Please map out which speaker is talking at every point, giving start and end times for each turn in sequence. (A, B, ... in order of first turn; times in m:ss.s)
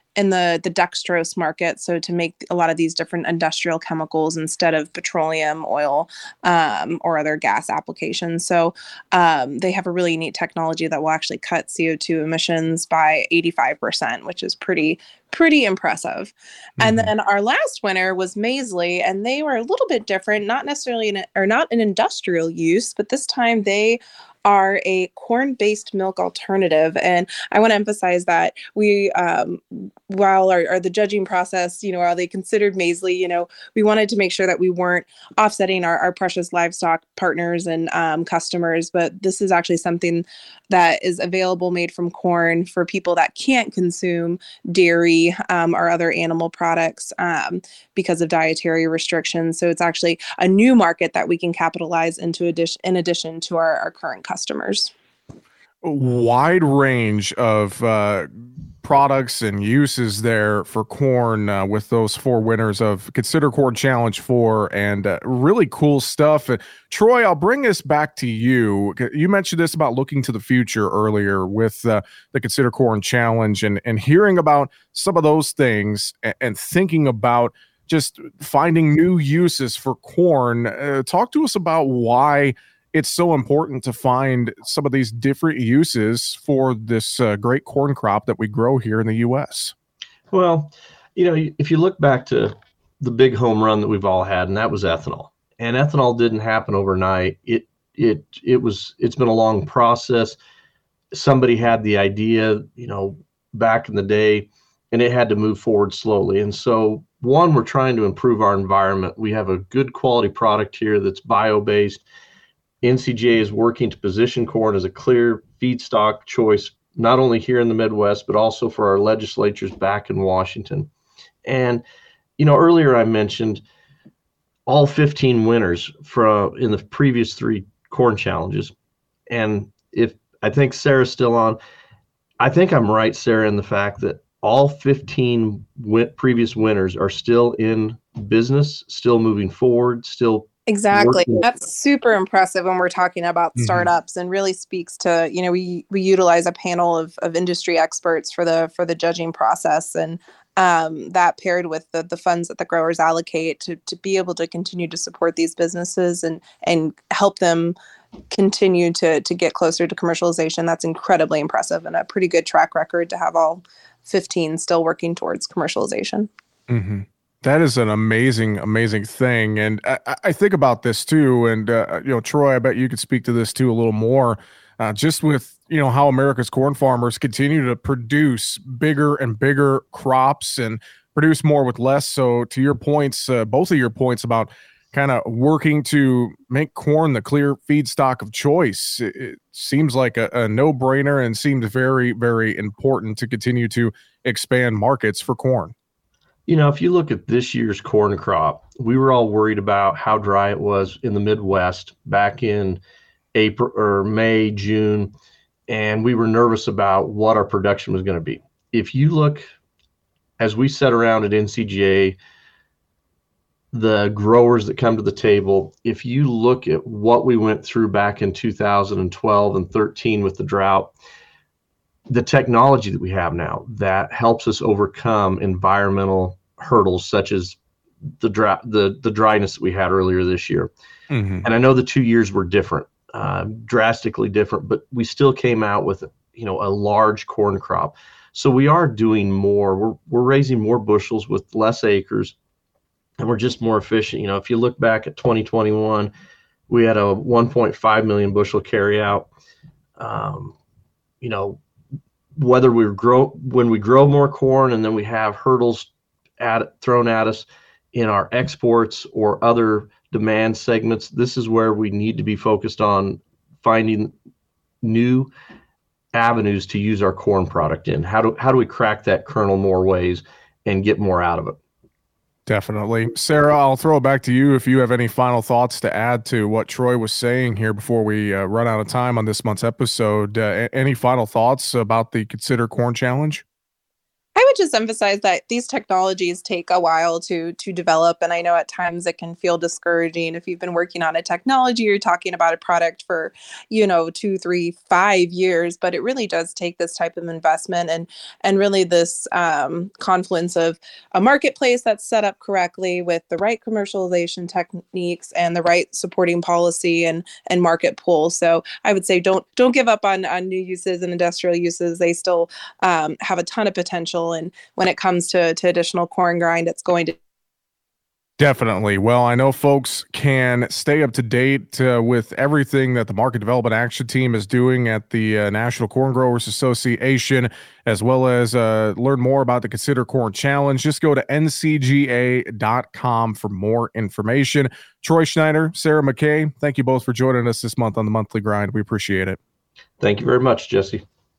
0:00.2-0:54.9 A
0:16.8-0:17.1 B
0:55.8-0:58.3 B
0:58.8-1:29.7 B
1:30.3-1:40.4 C
1:41.1-1:52.0 C
1:52.8-2:00.9 C
2:01.4-2:01.8 C
2:02.4-2:03.6 C
2:04.7-2:08.7 C
2:09.3-2:11.6 C
2:12.4-2:21.4 C
2:20.7-2:37.8 A
2:23.6-2:23.9 B
2:38.3-2:46.3 A
2:46.7-3:15.7 B
3:16.5-3:22.8 C
3:23.4-3:25.1 C
3:25.7-3:29.5 C
3:30.4-3:32.2 C
3:33.7-3:40.9 C
3:42.1-3:47.6 C
3:48.2-3:50.7 C
3:51.1-3:51.5 B
3:51.4-4:02.4 C
4:03.2-4:06.1 C
4:06.7-4:09.3 C
4:10.0-4:10.6 C
4:11.2-4:11.6 C
4:12.4-4:24.1 C
4:24.8-4:25.3 C
4:26.1-4:31.6 C
4:32.5-4:43.4 B
4:44.4-5:17.2 A
5:18.4-5:39.4 B
5:40.0-5:41.0 C